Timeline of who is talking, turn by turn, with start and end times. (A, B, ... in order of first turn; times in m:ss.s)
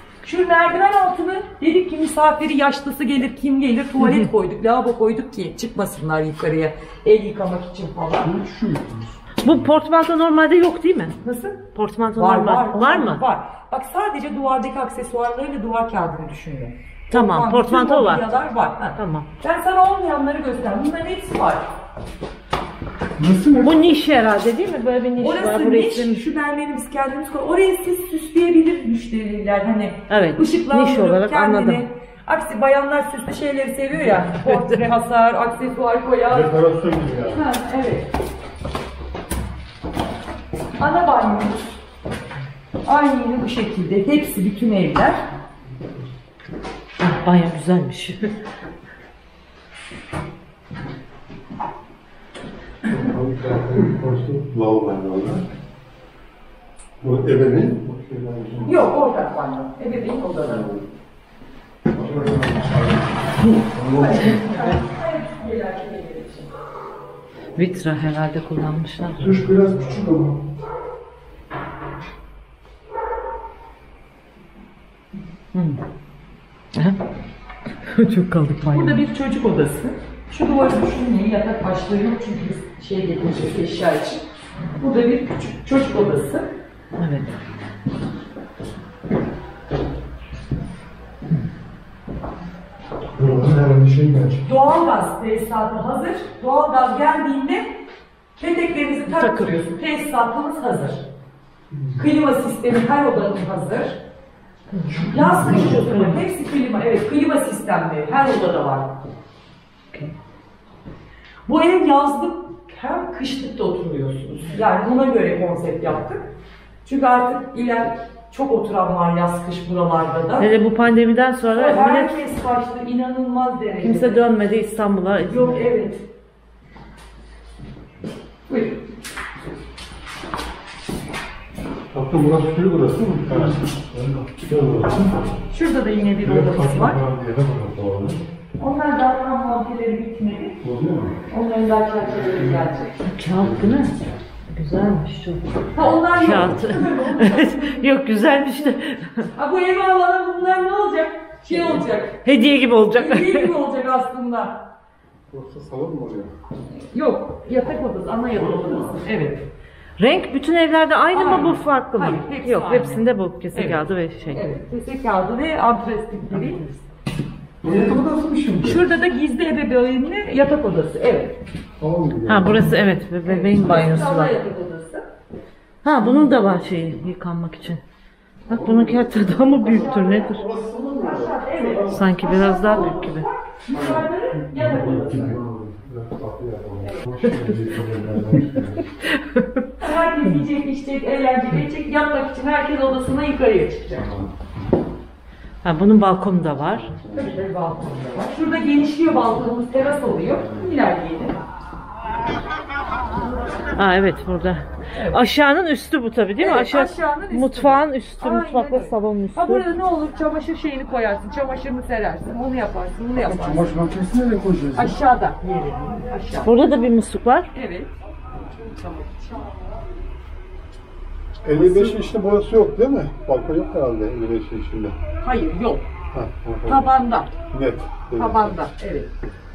0:00.2-0:08.3 A
0:08.2-0:09.2 B
0:09.4-0:11.2 C
0:11.2-0:11.6 A
0:11.7-0:13.2 C
0:12.2-0:21.8 A
0:17.1-0:18.2 C
0:19.0-0:19.3 C
0:23.2-0:23.8 B
0:23.6-0:26.2 C
0:25.2-0:36.6 A
0:30.1-0:31.8 C
0:34.1-0:34.8 C
0:36.3-0:37.4 D
0:37.3-0:38.1 A
0:40.8-0:41.8 A
0:42.8-0:45.2 A
0:47.0-0:48.3 C
0:52.8-0:55.4 D
0:57.0-0:58.8 D
0:58.6-1:00.7 A
1:00.4-1:00.8 D
1:02.0-1:04.4 D
1:02.1-1:02.6 B
1:03.9-1:06.5 A
1:07.6-1:09.4 C
1:09.2-1:10.4 B
1:16.7-1:17.0 C
1:17.8-1:19.0 C
1:18.7-1:24.2 A
1:24.8-1:26.5 A
1:27.0-1:27.3 C
1:33.2-1:34.4 B
1:34.4-1:37.8 A
1:38.4-1:41.0 A
1:39.1-1:39.6 C
1:41.7-1:42.0 B
1:42.0-1:44.0 A
1:44.7-1:46.2 C
1:44.8-1:45.9 B
1:45.1-1:49.0 A
1:51.5-1:56.3 A
1:56.8-2:00.5 A
2:00.4-2:02.2 C
2:01.5-2:04.3 A
2:03.8-2:05.7 C
2:05.2-2:06.1 A
2:08.5-2:08.8 A
2:11.9-2:15.3 D
2:13.3-2:14.2 B
2:15.5-2:17.0 A
2:16.2-2:18.2 D
2:18.6-2:20.6 A
2:20.6-2:21.2 D
2:21.3-2:23.0 A
2:22.0-2:22.7 D
2:23.0-2:23.9 C
2:23.3-2:23.9 D
2:24.5-2:25.4 C
2:25.7-2:27.9 A
2:25.7-2:26.6 D
2:26.1-2:29.3 C
2:29.3-2:34.7 A
2:32.2-2:33.5 C
2:35.3-2:36.3 D
2:36.9-2:39.4 A
2:40.0-2:44.4 C
2:41.1-2:46.8 A
2:47.6-2:48.8 B
2:48.6-2:51.4 A
2:51.8-2:52.7 D
2:52.3-2:54.4 C
2:53.2-2:55.0 A
2:55.8-2:57.8 C
2:56.0-2:56.3 A
2:58.5-3:00.4 C
2:58.5-3:02.0 D
2:59.6-3:05.3 A
3:01.9-3:03.3 C
3:03.7-3:08.9 D
3:04.6-3:05.4 B
3:09.0-3:09.6 C
3:09.8-3:14.0 A
3:13.9-3:14.3 D
3:15.6-3:16.9 C
3:17.0-3:17.3 D
3:17.1-3:21.4 A
3:23.7-3:29.6 C
3:24.9-3:25.2 A
3:26.4-3:33.8 A
3:33.2-3:35.0 B
3:34.8-3:36.8 A
3:36.4-3:37.5 C
3:37.5-3:37.9 A
3:38.6-3:39.5 A
3:41.4-3:45.0 D
3:41.5-3:42.0 B
3:45.2-3:45.8 A
3:46.1-3:48.6 D
3:46.6-3:47.3 A
3:48.2-3:49.1 A